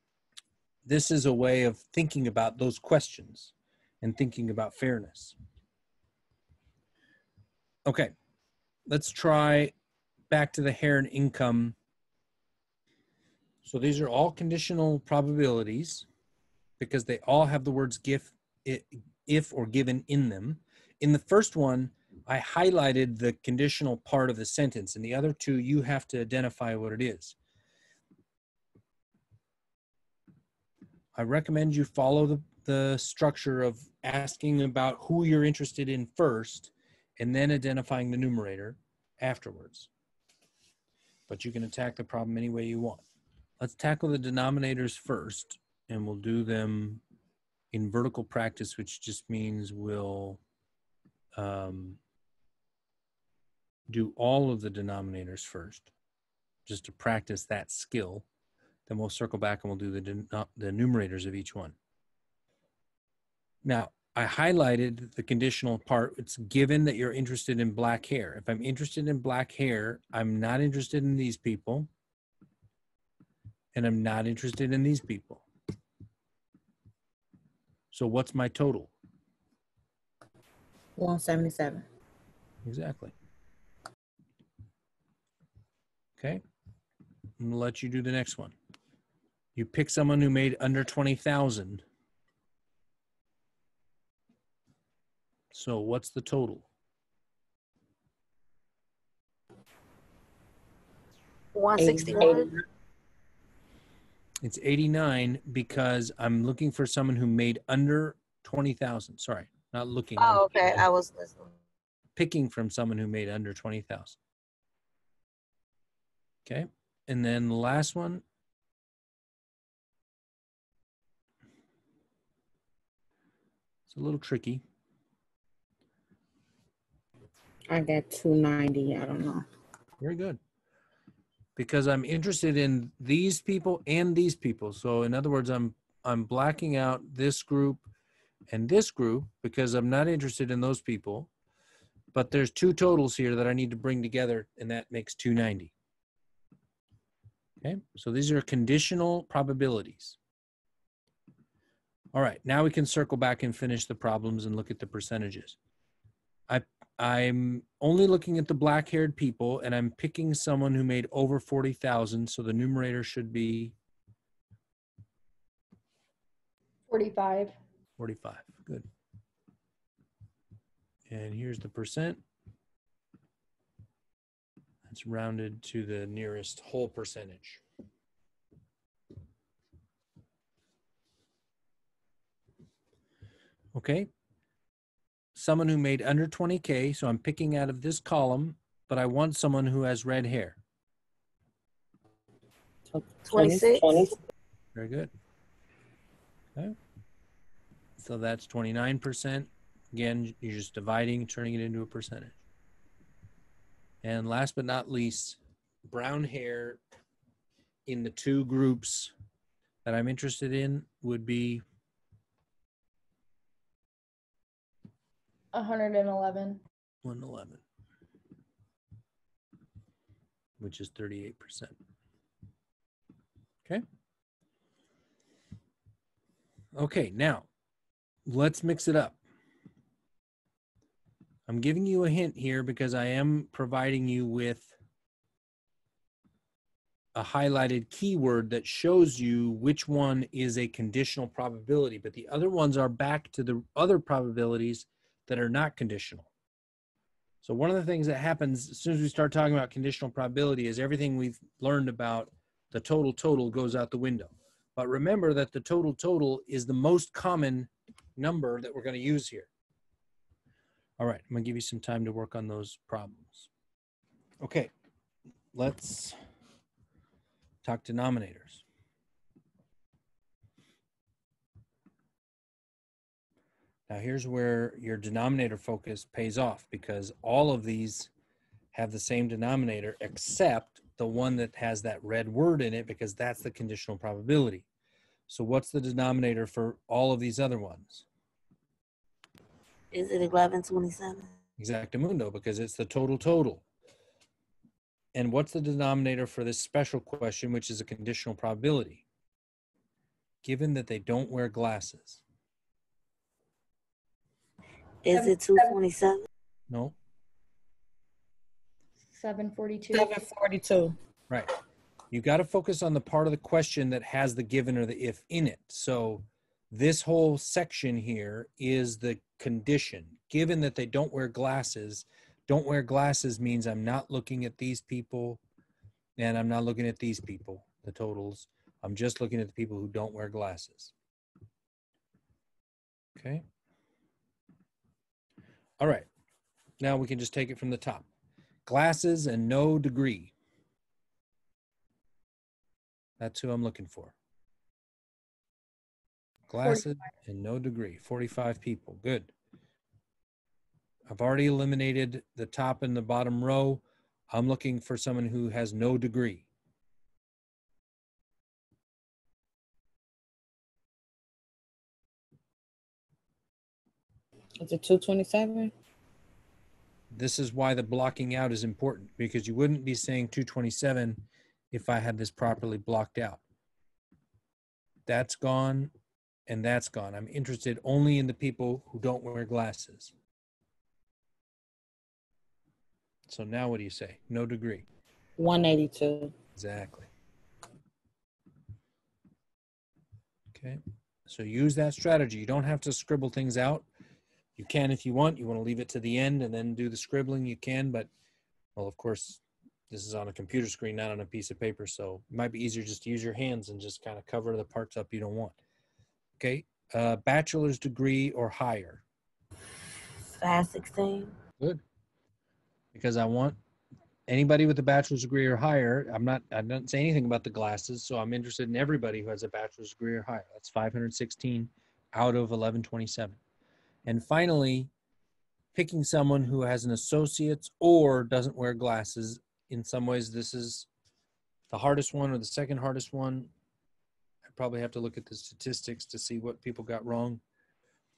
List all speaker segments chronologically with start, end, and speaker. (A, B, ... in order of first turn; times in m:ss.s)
0:00.9-0:05.4 A
0:07.9-0:08.1 A
0:08.9-0:09.7 A
0:10.3-0:11.8 A
0:13.6-0:16.1 A
0:16.8-0:27.4 A
0:31.2-0:39.9 A
0:41.3-0:43.0 A
0:43.6-0:47.0 A
0:47.7-0:50.4 A
0:51.4-0:52.0 A
0:53.9-0:55.9 A
0:56.7-0:58.3 A
0:58.9-1:01.8 A
1:03.6-1:11.9 A
1:13.7-1:15.4 A
1:17.9-1:18.9 A
1:21.0-1:21.8 B
1:22.6-1:23.1 A
1:27.4-1:28.5 A
1:29.6-1:31.8 A
1:35.5-1:36.7 A
1:41.5-1:42.5 C
1:41.8-1:42.6 B
1:44.4-1:50.9 A
1:50.2-1:51.5 C
1:52.2-1:54.2 A
1:56.5-1:58.2 A
2:03.9-2:04.6 A
2:07.7-2:09.5 B
2:10.0-2:10.4 A
2:11.6-2:17.9 A
2:18.5-2:21.3 A
2:22.1-2:25.7 A
2:27.6-2:30.2 A
2:32.1-2:35.6 A
2:36.5-2:43.8 A
2:46.9-2:47.6 D
2:48.0-2:48.9 A
2:51.1-2:52.2 A
2:54.8-2:57.6 A
3:03.7-3:04.1 A
3:05.4-3:10.6 A
3:12.9-3:14.2 B
3:13.3-3:14.0 C
3:14.8-3:15.1 A
3:18.0-3:22.4 A
3:24.0-3:26.8 A
3:27.9-3:29.1 A
3:29.8-3:31.6 A
3:35.5-3:36.6 D
3:37.0-3:37.6 A
3:40.6-3:41.7 A
3:46.8-3:47.5 A
3:48.3-3:49.2 A
3:51.5-3:54.8 A
3:57.1-4:06.3 A
4:07.4-4:19.5 A
4:21.0-4:23.5 A
4:24.4-4:24.7 A
4:25.5-4:26.2 A
4:27.6-4:28.6 A
4:33.9-4:38.1 A
4:38.7-4:44.7 A
4:45.3-4:48.1 A
4:49.9-4:51.3 C
4:51.6-4:53.6 A
4:55.1-4:59.0 A
5:00.4-5:02.2 A
5:05.0-5:06.3 C
5:05.1-5:05.8 D
5:06.7-5:07.0 A
5:09.1-5:10.2 D
5:09.9-5:11.0 B
5:12.1-5:25.4 A
5:26.2-5:30.9 A
5:33.2-5:33.4 A
5:35.8-5:36.1 A
5:36.8-5:38.1 A
5:38.7-5:40.3 A
5:43.2-5:44.1 A
5:46.5-5:49.3 A
5:51.1-5:56.5 A
6:04.6-6:05.7 B
6:07.1-6:13.4 A
6:15.1-6:15.9 A
6:16.5-6:20.1 A
6:23.3-6:24.9 A
6:25.4-6:26.3 B
6:26.6-6:27.1 A
6:30.5-6:33.9 A
6:34.6-6:38.1 A
6:38.8-6:45.6 A
6:46.4-6:49.0 A
6:50.3-6:51.3 C
6:52.9-6:53.6 A
6:54.3-7:03.4 A
7:04.1-7:04.9 A
7:05.7-7:10.9 A
7:11.7-7:13.5 A
7:14.5-7:17.4 A